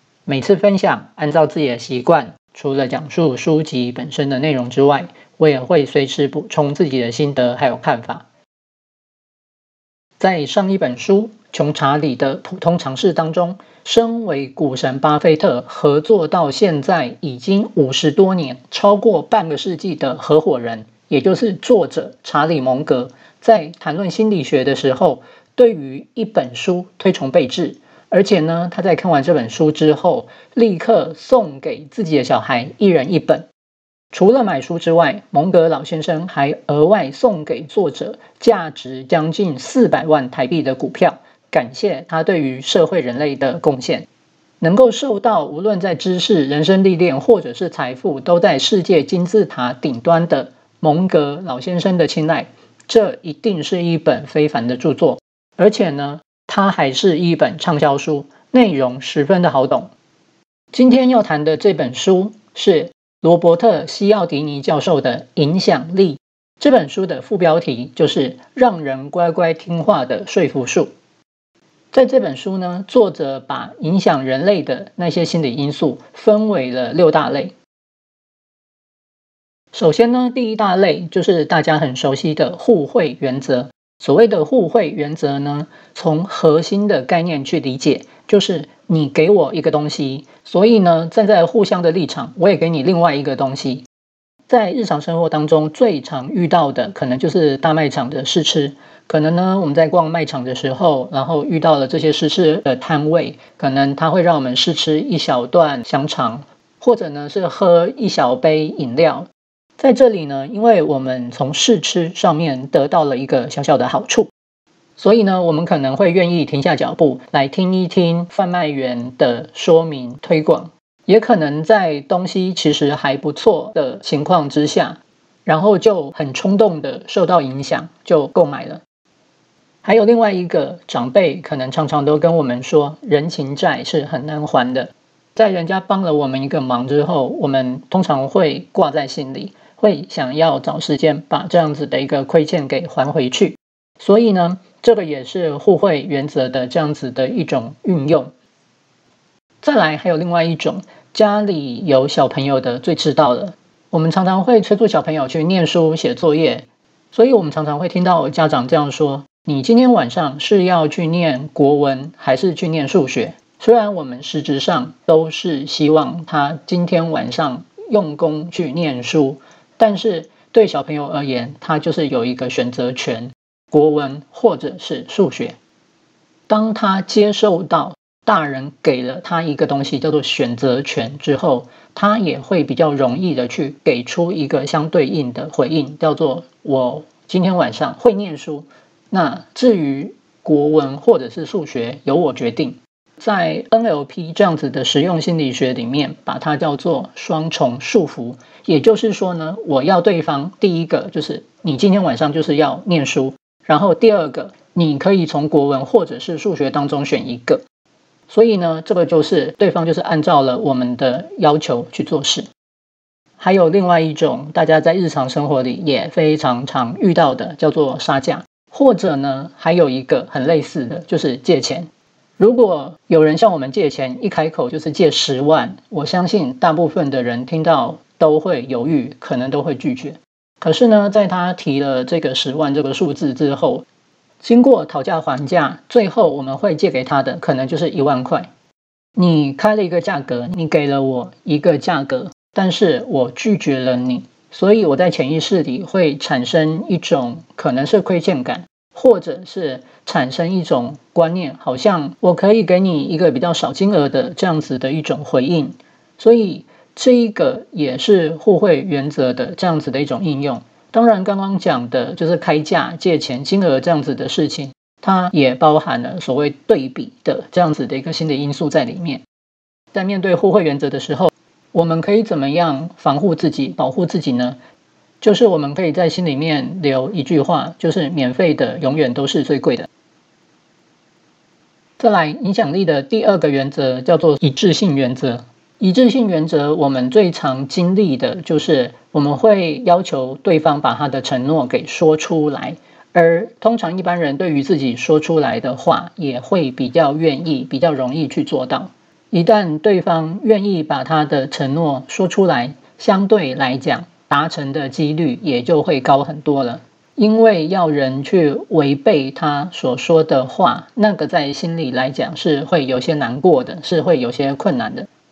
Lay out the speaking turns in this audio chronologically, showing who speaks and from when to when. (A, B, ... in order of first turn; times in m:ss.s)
0:00.2-0:08.2 A
0:10.2-0:33.5 A
0:34.1-0:44.1 A
0:44.6-0:59.9 A
1:00.7-1:10.9 A
1:11.9-1:17.5 A
1:19.7-1:33.8 A
1:34.5-1:54.3 A
1:55.0-2:08.8 A
2:09.8-2:28.3 A
2:29.6-2:55.6 A
2:56.5-3:27.6 A
3:28.3-3:32.5 A
3:33.4-3:53.8 A
3:54.4-3:58.5 A
3:59.2-4:29.2 A
4:29.9-4:34.6 A
4:35.2-4:39.9 A
4:42.0-5:15.1 A